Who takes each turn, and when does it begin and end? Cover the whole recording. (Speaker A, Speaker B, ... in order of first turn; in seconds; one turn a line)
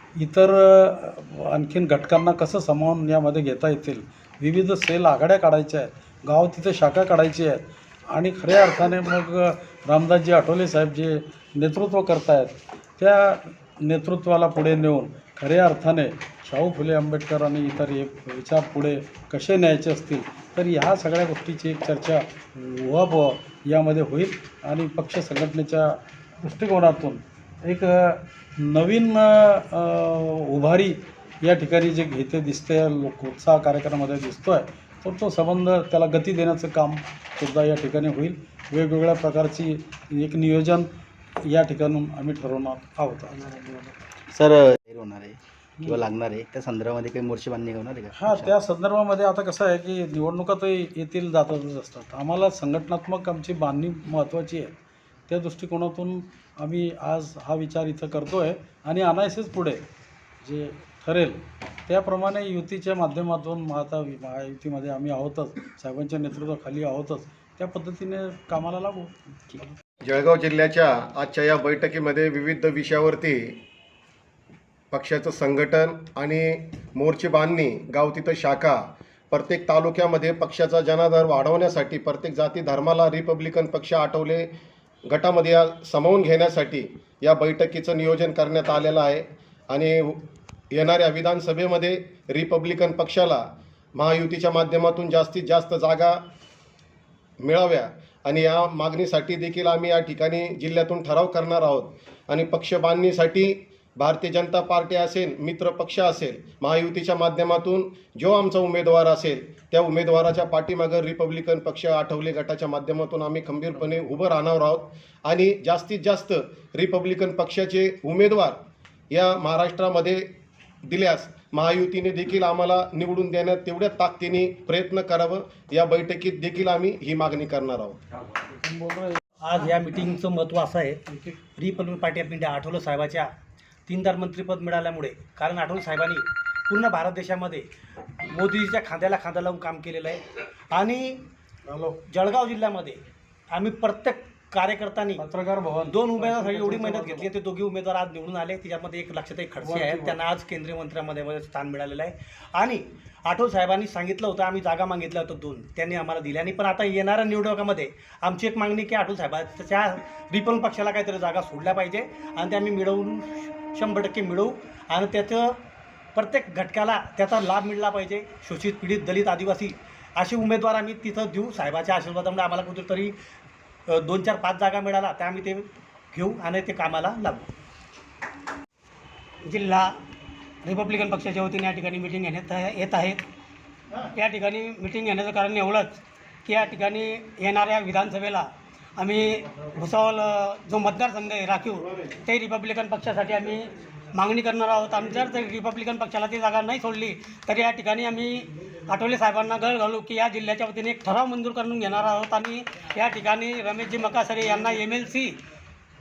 Speaker A: 0.2-40.9
Speaker A: 41.5-43.5
Speaker B: 44.3-48.5
Speaker A: 48.1-54.7
Speaker A: 55.3-59.8
Speaker A: 60.4-69.7
Speaker C: 70.0-73.6
Speaker C: 74.9-84.5
Speaker C: 85.1-93.5
Speaker C: 94.0-96.2
Speaker C: 97.4-118.6
Speaker C: 119.1-120.2
Speaker C: 120.9-128.0
Speaker A: 128.7-129.1
Speaker D: 129.4-133.3
Speaker D: 133.9-137.7
Speaker D: 138.3-141.2
Speaker A: 141.7-142.0
Speaker D: 142.1-143.0
Speaker D: 143.5-145.2
Speaker A: 145.2-147.3
Speaker D: 145.9-165.6
Speaker A: 149.6-150.2
Speaker D: 166.2-173.2
Speaker D: 173.9-177.5
Speaker E: 179.4-179.9
Speaker E: 180.6-183.2
Speaker E: 184.2-185.9
Speaker E: 186.4-205.4